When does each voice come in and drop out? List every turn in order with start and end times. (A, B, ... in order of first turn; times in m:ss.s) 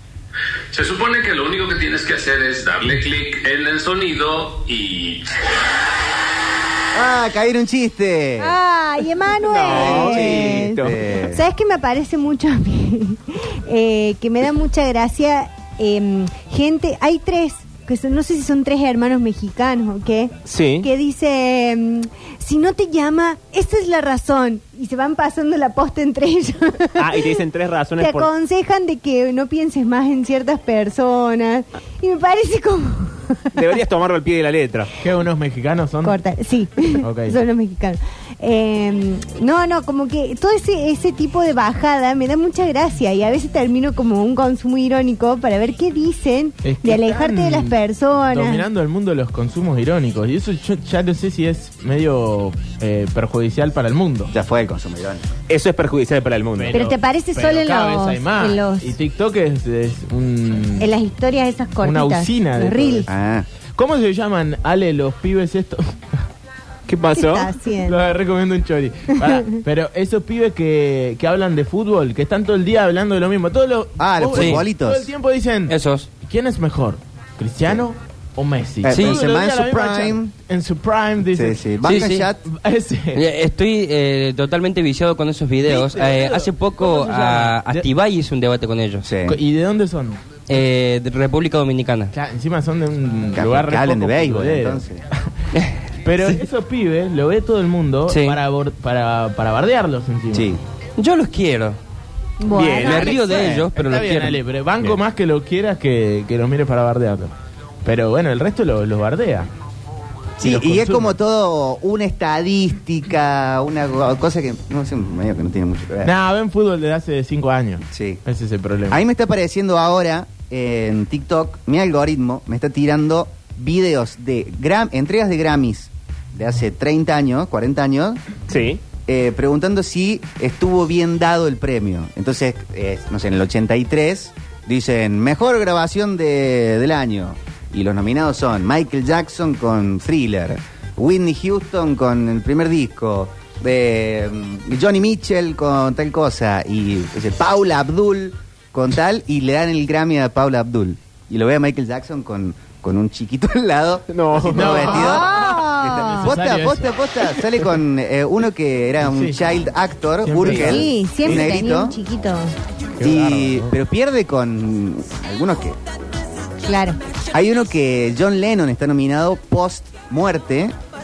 0:00.7-0:05.3 A
0:06.9-0:08.6 B
0:08.4-0:27.3 C
0:09.4-0:11.0 D
0:09.7-0:11.4 B
0:20.5-0:20.9 D
0:27.0-0:28.3 D
0:28.0-0:33.4 C
0:33.5-0:34.9 D
0:35.0-0:36.2 E
0:36.0-0:48.7 C
0:37.0-0:37.4 E
0:46.6-0:47.8 E
0:48.3-0:54.3 E
0:54.3-0:55.3 B
0:55.5-0:56.8 D
0:56.6-1:00.9 E
0:56.7-0:59.0 C
1:00.8-1:03.1 C
1:01.8-1:03.1 E
1:03.1-1:03.5 B
1:03.8-1:05.9 E
1:06.9-1:07.5 D
1:07.2-1:08.0 C
1:07.8-1:23.2 E
1:14.0-1:15.1 B
1:14.3-1:14.6 F
1:15.7-1:16.1 F
1:18.8-1:20.3 B
1:18.9-1:19.2 F
1:21.3-1:22.4 B
1:21.8-1:22.3 F
1:23.1-1:29.1 F
1:25.6-1:27.9 E
1:29.0-1:29.4 B
1:29.3-1:30.2 E
1:30.5-1:32.1 F
1:32.1-1:34.8 E
1:33.3-1:35.0 B
1:36.0-1:40.6 E
1:38.1-1:38.4 F
1:40.3-1:40.6 B
1:41.0-1:41.8 F
1:42.4-1:43.4 C
1:42.5-1:43.5 D
1:42.8-1:44.4 F
1:43.3-1:43.7 B
1:43.6-1:47.3 E
1:47.8-1:49.5 E
1:50.4-1:56.1 B
1:50.4-1:51.2 E
1:56.0-1:59.0 E
1:57.9-1:58.2 B
1:58.9-2:08.2 B
2:08.5-2:08.8 D
2:09.1-2:42.0 B
2:34.1-2:35.1 D
2:34.5-2:36.9 E
2:34.9-2:36.3 C
2:39.0-2:39.4 E
2:40.2-2:41.7 E
2:40.4-2:42.5 C
2:43.0-2:43.8 E
2:43.0-2:45.8 B
2:46.6-2:47.0 C
2:47.3-2:50.8 B